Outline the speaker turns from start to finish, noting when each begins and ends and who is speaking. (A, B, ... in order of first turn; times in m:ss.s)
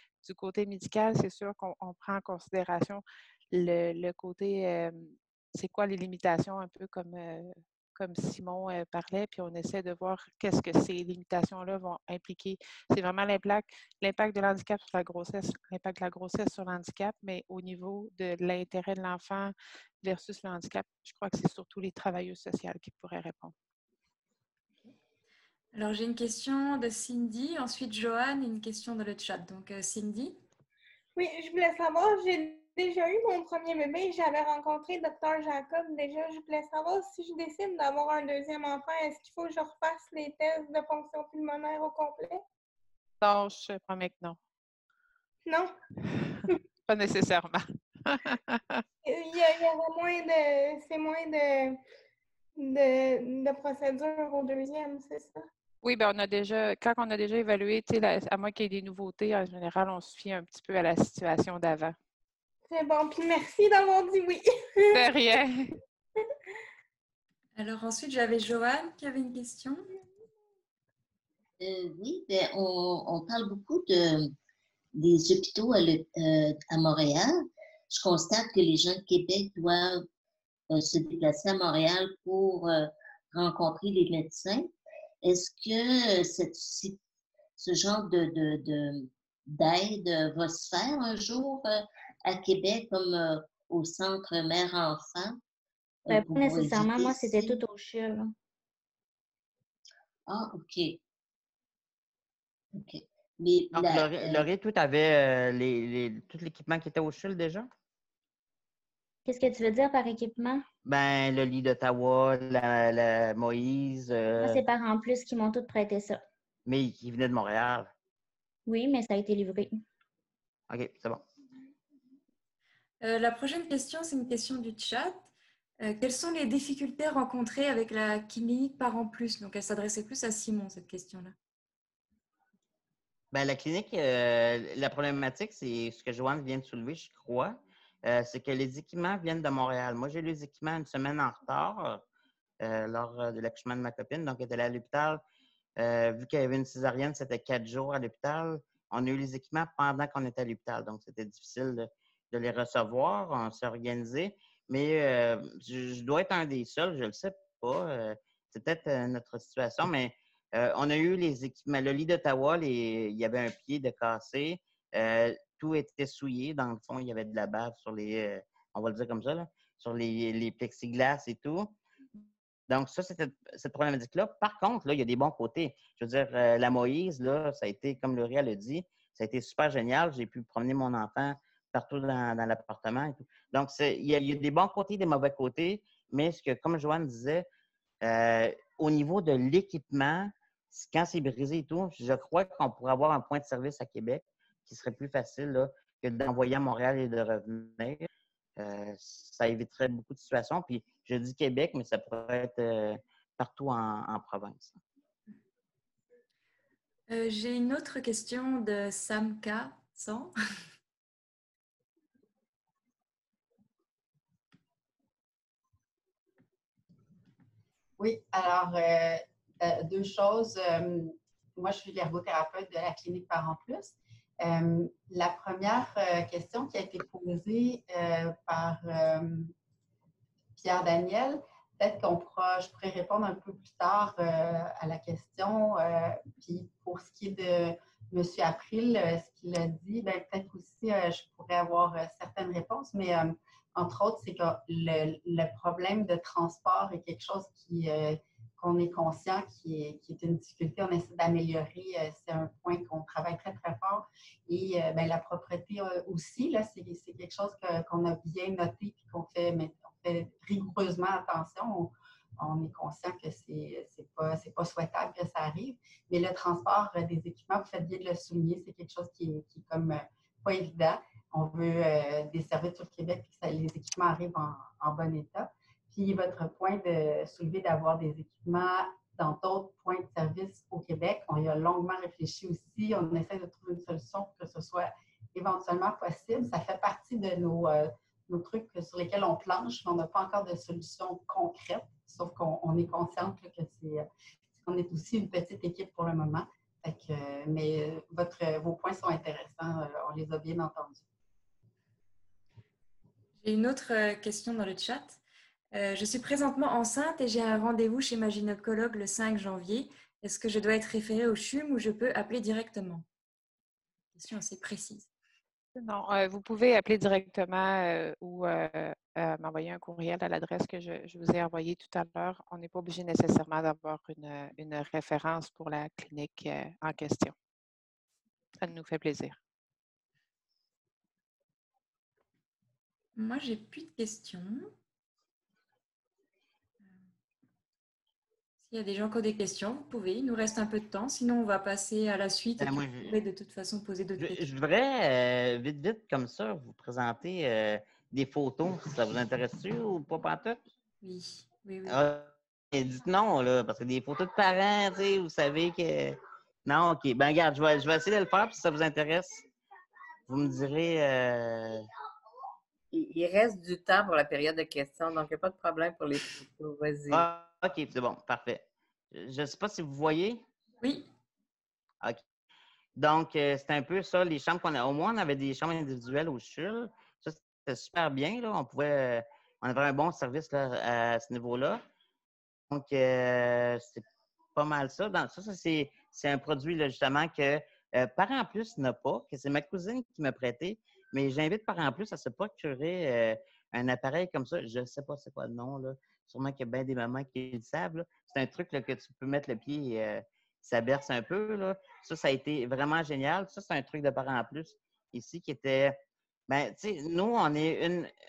0:00.2-0:23.5 A
0:25.7-0:30.4 B
0:31.2-0:42.4 C
0:43.2-0:44.4 A
0:45.5-0:45.7 C
0:46.9-0:48.8 A
0:49.0-0:51.8 C
0:52.6-0:55.4 C
0:55.8-1:02.0 A
1:02.7-1:05.1 C
1:04.9-1:05.7 A
1:07.6-1:09.9 B
1:11.6-1:14.3 D
1:15.0-1:17.3 D
1:17.9-1:20.0 D
1:20.7-1:24.7 D
1:25.2-1:27.0 D
1:27.6-1:35.4 D
1:36.1-1:37.6 D
1:36.1-1:38.3 E
1:40.3-1:41.0 D
1:42.8-1:44.5 D
1:43.7-1:47.7 F
1:49.3-1:50.6 E
1:50.8-1:54.6 F
1:54.4-1:56.2 E
1:56.7-1:57.9 F
1:58.7-1:59.8 E
2:00.7-2:01.2 F
2:03.0-2:05.3 B
2:05.8-2:11.4 B
2:13.3-2:22.0 F
2:22.6-2:25.2 F
2:25.8-2:51.8 F
2:52.7-3:07.5 F
3:08.0-3:24.8 F
3:27.1-3:30.3 B
3:38.0-3:49.5 G
3:50.6-4:54.1 G
4:54.6-5:01.0 G
5:03.4-5:05.2 B
5:05.7-5:13.0 B
5:14.2-5:15.1 B
5:15.8-5:27.3 A
5:28.6-5:29.4 A
5:33.2-5:34.7 B
5:38.7-5:44.4 B
5:42.6-5:43.2 F
5:44.2-5:50.6 F
5:51.0-5:52.0 B
5:51.9-5:59.4 F
6:00.3-6:01.9 F
6:02.9-6:07.3 H
6:07.1-6:10.4 F
6:13.0-6:21.8 F
6:22.7-6:46.0 F
6:46.5-6:48.1 F